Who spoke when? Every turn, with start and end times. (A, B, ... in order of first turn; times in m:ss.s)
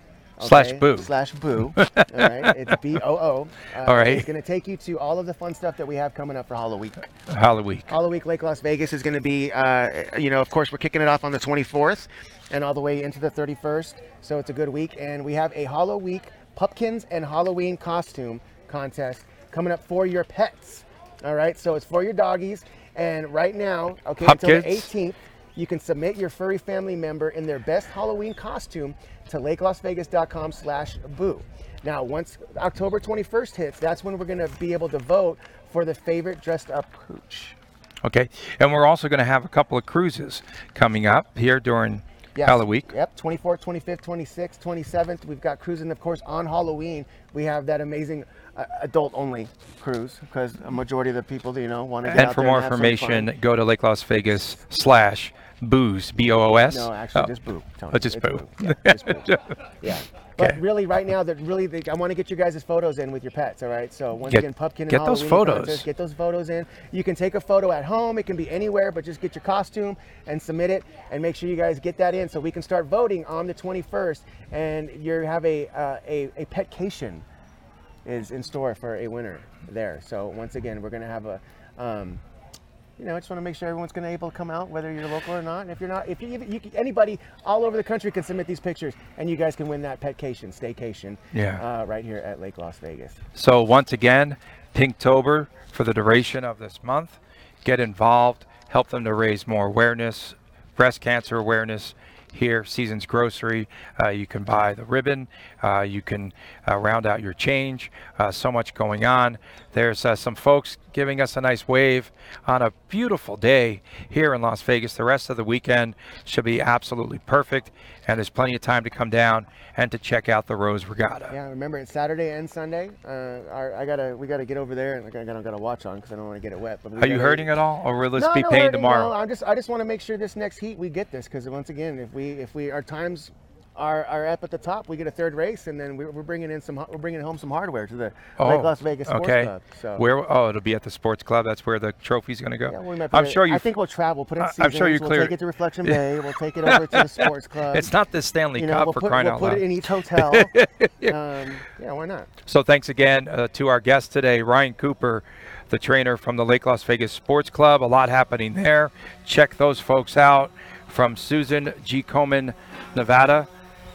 0:00.4-0:07.0 A
0:00.4-0:02.7 B
0:03.9-0:04.3 B
0:07.3-0:07.9 B
0:07.9-0:37.6 A
0:24.2-0:24.9 B
0:38.0-0:42.9 B
0:42.4-0:53.3 A
0:52.1-0:57.3 B
0:56.6-1:17.2 A
0:57.9-0:59.4 B
1:04.3-1:05.9 B
1:18.1-1:22.2 A
1:23.0-1:33.2 A
1:31.3-1:31.6 B
1:33.4-2:01.3 B
2:01.3-2:07.5 A
2:07.0-2:09.1 B
2:08.1-2:20.0 A
2:18.4-2:23.7 B
2:22.7-2:27.9 A
2:24.4-2:25.3 B
2:26.7-2:31.1 B
2:28.6-2:30.5 A
2:31.0-2:32.3 A
2:32.5-2:43.5 B